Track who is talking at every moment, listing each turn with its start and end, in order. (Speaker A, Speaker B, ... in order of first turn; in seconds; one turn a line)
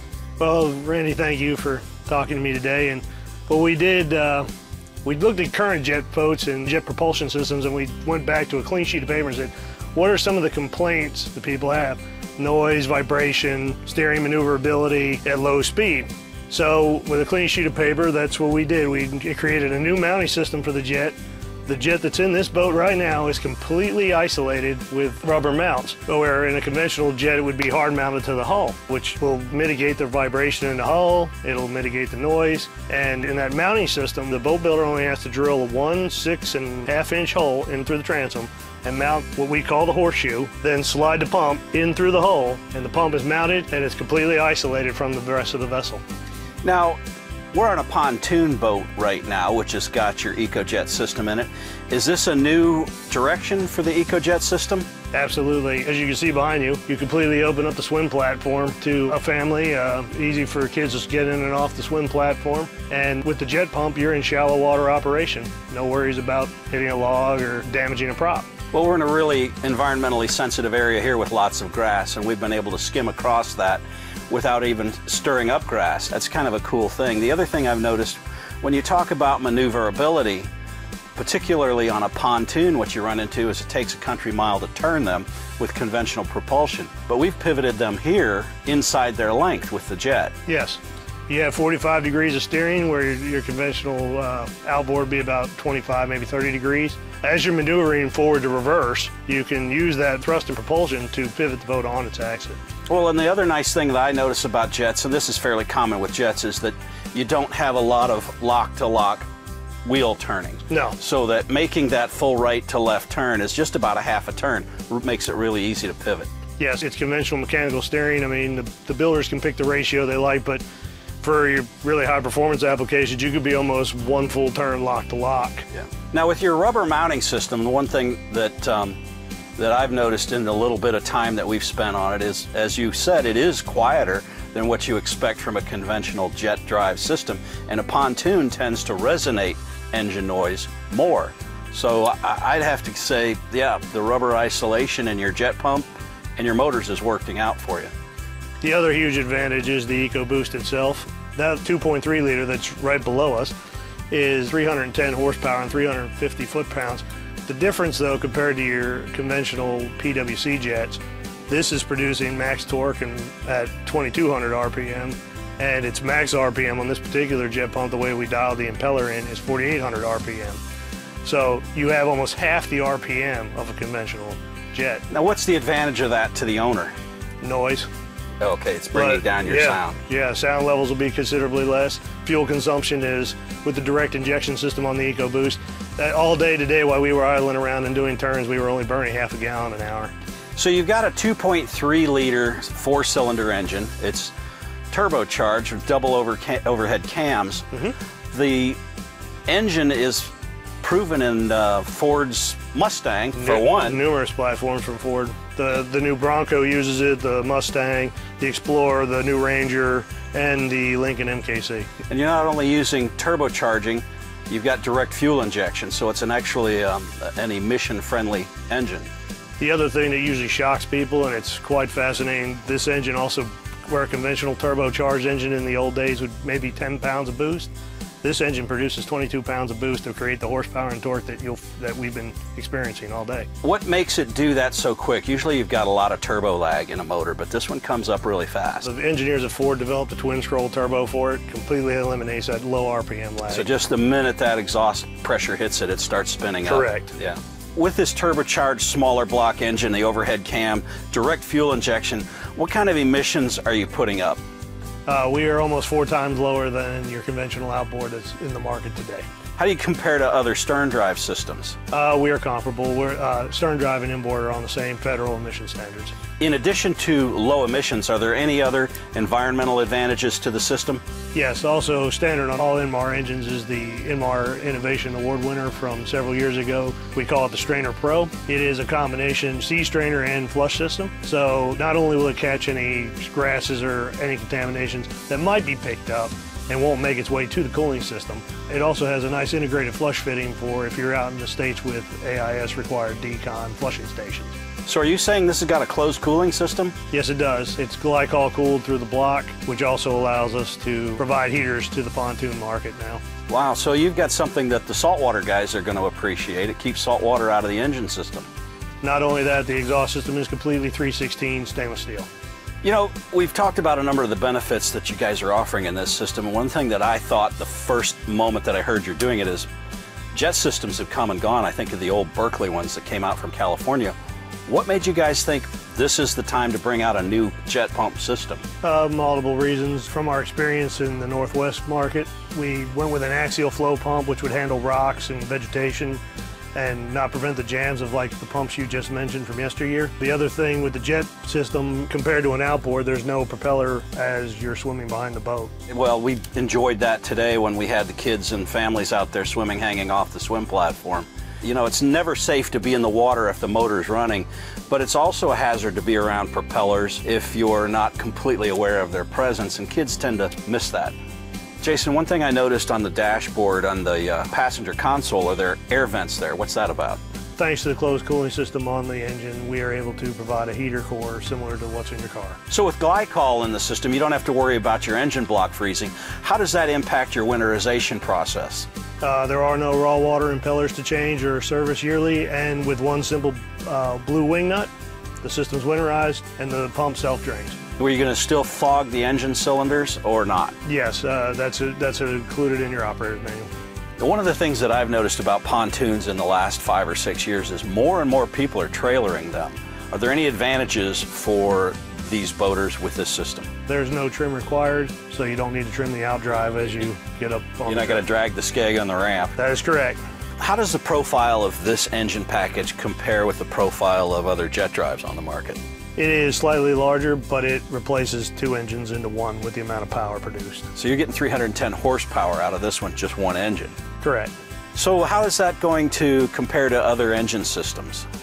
Speaker A: 0.4-4.5
Speaker A: 5.0-46.0
Speaker B: 46.6-47.0
Speaker B: 47.5-54.9
Speaker A: 55.1-68.5
Speaker B: 68.7-80.5
Speaker B: 81.2-90.3
Speaker A: 90.5-102.6
Speaker B: 102.9-109.3
Speaker B: 109.8-116.3
Speaker A: 110.7-111.0
Speaker A: 116.6-120.6
Speaker A: 121.2-125.7
Speaker B: 125.9-129.0
Speaker B: 129.6-147.9
Speaker A: 148.6-153.6
Speaker A: 154.1-170.6
Speaker A: 171.2-175.0
Speaker B: 175.1-176.9
Speaker A: 177.4-177.9
Speaker B: 178.4-180.0
Speaker A: 178.9-190.1
Speaker B: 190.6-194.3
Speaker B: 194.9-197.7
Speaker B: 198.3-198.8
Speaker B: 199.5-200.3
Speaker B: 200.8-204.0
Speaker A: 203.4-211.9
Speaker B: 212.1-219.1
Speaker A: 219.6-227.7
Speaker A: 228.2-233.5
Speaker B: 233.6-238.9
Speaker A: 238.8-243.7
Speaker B: 243.5-254.4
Speaker A: 246.7-247.1
Speaker A: 255.1-259.3
Speaker B: 259.6-261.8
Speaker A: 261.9-266.2
Speaker B: 266.4-271.0
Speaker A: 271.3-294.5
Speaker B: 294.9-296.9
Speaker A: 297.1-303.2
Speaker B: 303.5-308.5
Speaker A: 309.0-312.3
Speaker B: 312.8-319.7
Speaker B: 320.3-324.1
Speaker B: 324.7-328.6
Speaker A: 328.8-336.2
Speaker A: 336.8-345.7
Speaker B: 345.9-361.1
Speaker B: 361.8-367.2
Speaker A: 367.6-372.6
Speaker B: 372.7-378.9
Speaker A: 379.2-384.9
Speaker A: 385.4-387.8
Speaker B: 388.0-390.8
Speaker A: 390.9-393.7
Speaker B: 394.2-403.7
Speaker A: 403.9-408.2
Speaker B: 407.9-409.5
Speaker A: 409.6-410.2
Speaker B: 410.6-415.8
Speaker A: 416.2-420.9
Speaker B: 421.0-423.9
Speaker A: 424.2-424.5
Speaker B: 424.9-428.3